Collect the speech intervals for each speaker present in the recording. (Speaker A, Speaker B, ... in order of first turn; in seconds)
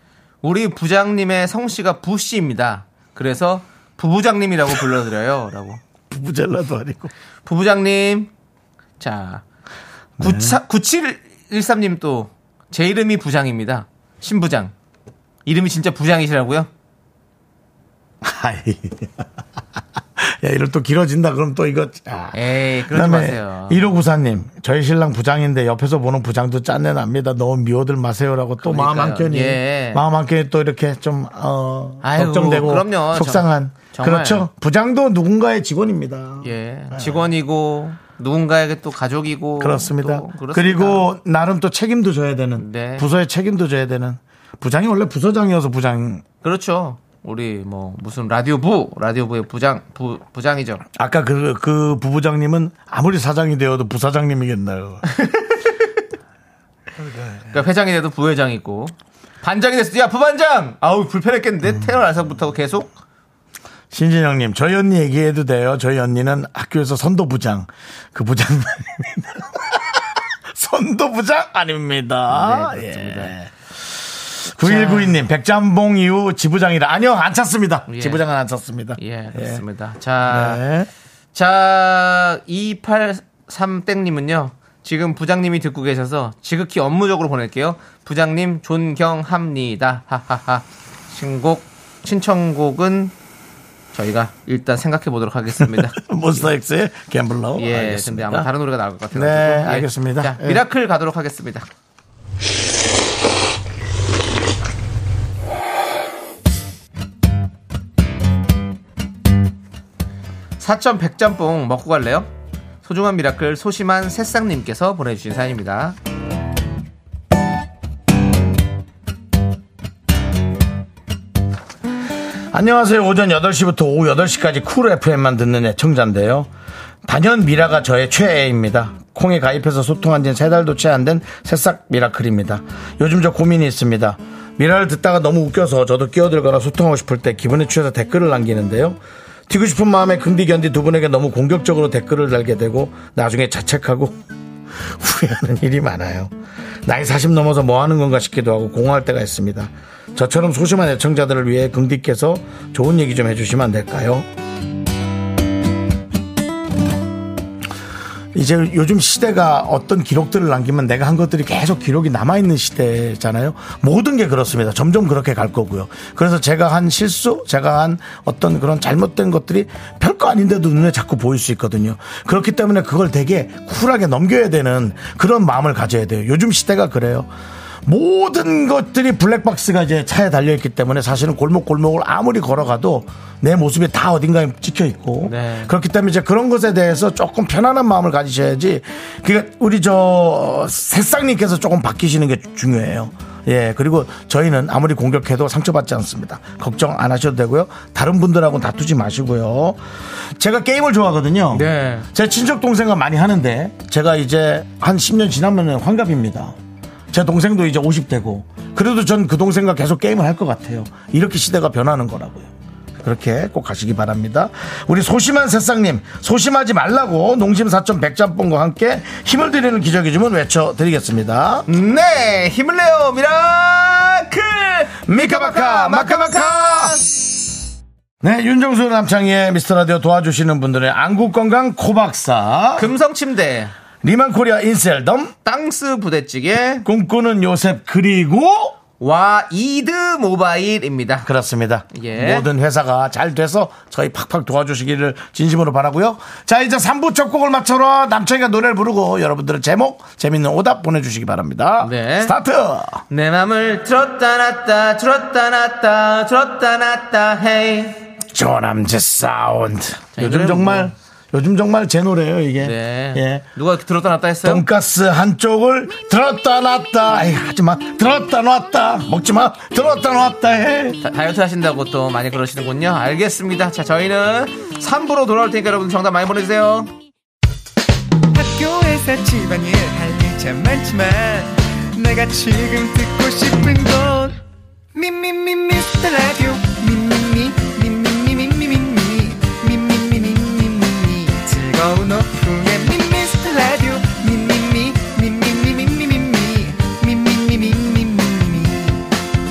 Speaker A: 0.4-5.8, 7.5-8.3, 9.0-9.4, 10.2-14.7, 15.4-16.7, 22.3-23.9, 28.6-30.0, 32.0-34.5, 36.4-41.1, 42.6-43.0, 46.4-50.8, 55.2-55.6, 57.5-62.9, 72.3-73.3, 74.6-75.2, 77.9-78.2, 79.0-80.6, 81.3-93.1, 93.9-96.4, 97.6-101.7, 110.6-112.3, 112.8-116.0, 185.2-185.7, 201.5-202.1, 221.7-227.0, 232.7-233.7, 235.4-236.8, 239.0-241.3, 241.9-242.5, 251.8-252.3, 253.1-258.0, 260.1-260.9, 262.6-264.6, 271.0-276.9
Speaker B: 6.1-7.1, 10.2-10.6, 18.2-19.3, 20.2-37.3, 39.6-46.2, 50.9-55.0, 57.0-57.5, 63.9-73.5, 74.5-79.6, 80.2-80.9, 95.6-98.5, 99.1-100.6, 122.5-126.5, 127.0-144.2, 144.8-146.3, 146.8-154.3, 158.3-177.3, 177.8-199.8, 200.3-206.6, 207.1-221.7, 225.1-227.0, 228.2-232.9, 234.0-235.3, 236.8-238.8, 241.2-253.0, 258.2-263.4, 264.4-271.0
Speaker C: 278.3-284.4, 284.9-299.1